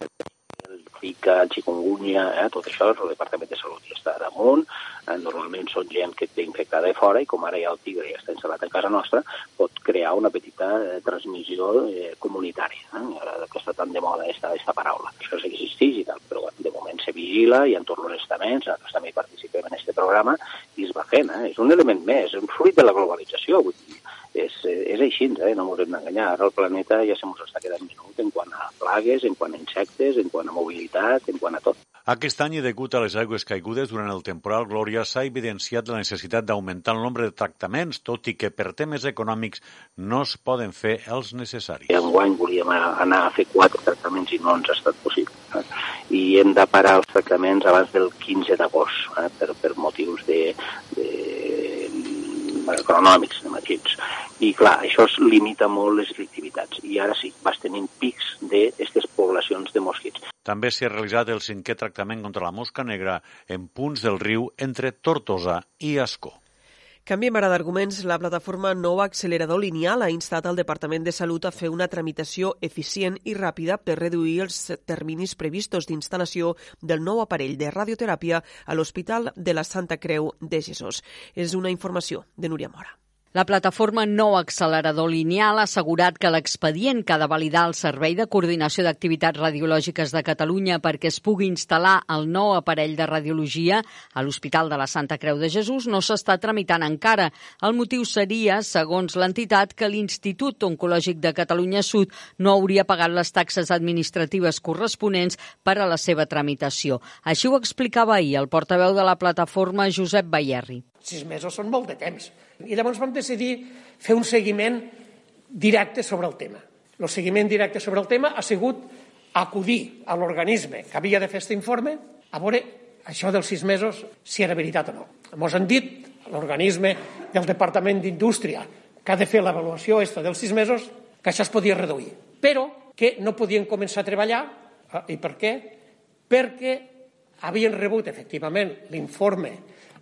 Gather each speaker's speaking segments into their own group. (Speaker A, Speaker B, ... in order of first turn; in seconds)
Speaker A: 0.7-31.8, 41.9-60.2
Speaker B: 32.1-41.9, 60.5-66.4
Speaker C: 67.1-82.9
Speaker D: 83.3-110.8
Speaker E: 111.0-115.0, 115.5-135.8, 136.3-139.6